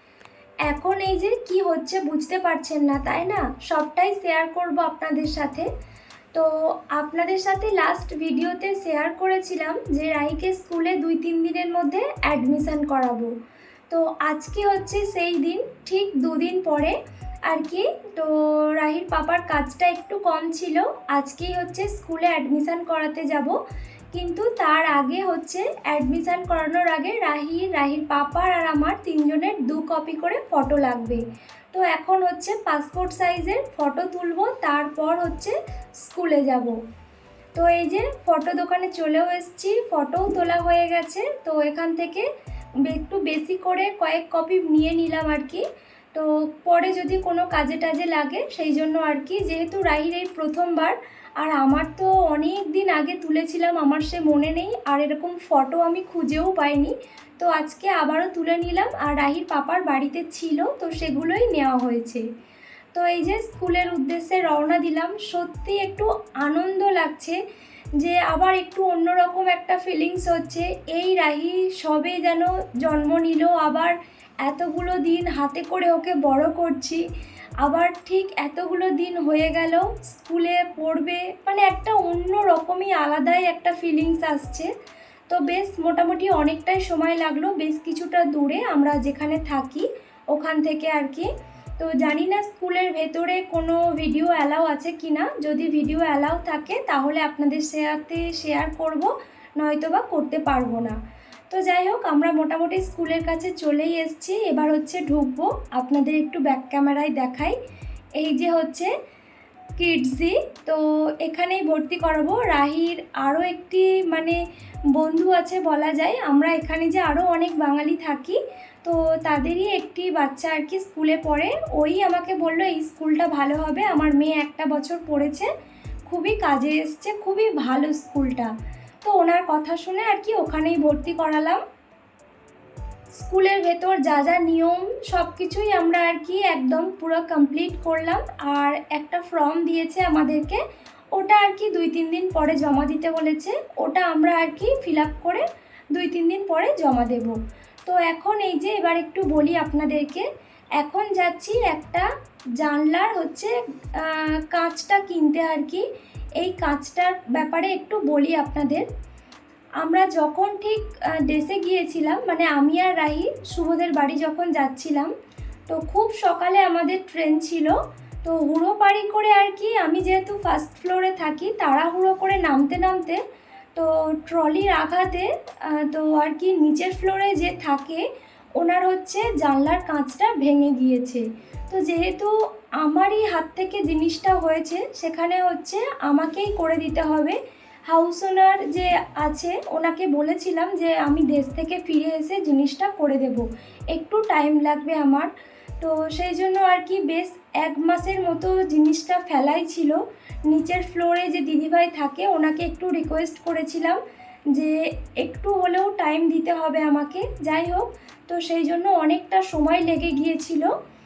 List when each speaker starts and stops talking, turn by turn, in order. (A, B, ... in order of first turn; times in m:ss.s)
0:00.7-0:05.7 A
0:06.3-0:13.3 A
0:13.9-0:23.6 A
0:24.1-0:36.8 A
0:37.6-0:42.3 A
0:42.8-1:02.3 A
1:02.9-1:07.4 A
1:08.0-1:17.0 A
1:17.6-1:24.7 A
1:25.3-1:41.0 A
1:41.5-1:47.6 A
1:48.2-1:48.9 A
1:49.8-1:54.4 A
1:55.0-2:05.5 A
2:06.1-2:08.5 A
2:09.0-2:11.6 A
2:13.2-2:20.6 A
2:21.1-2:30.3 A
2:30.8-2:35.9 A
2:36.4-2:38.8 A
2:39.8-2:45.1 A
2:45.7-2:53.2 A
2:53.8-2:58.0 A
2:58.6-3:15.3 A
3:15.8-3:24.0 A
3:24.5-3:30.7 A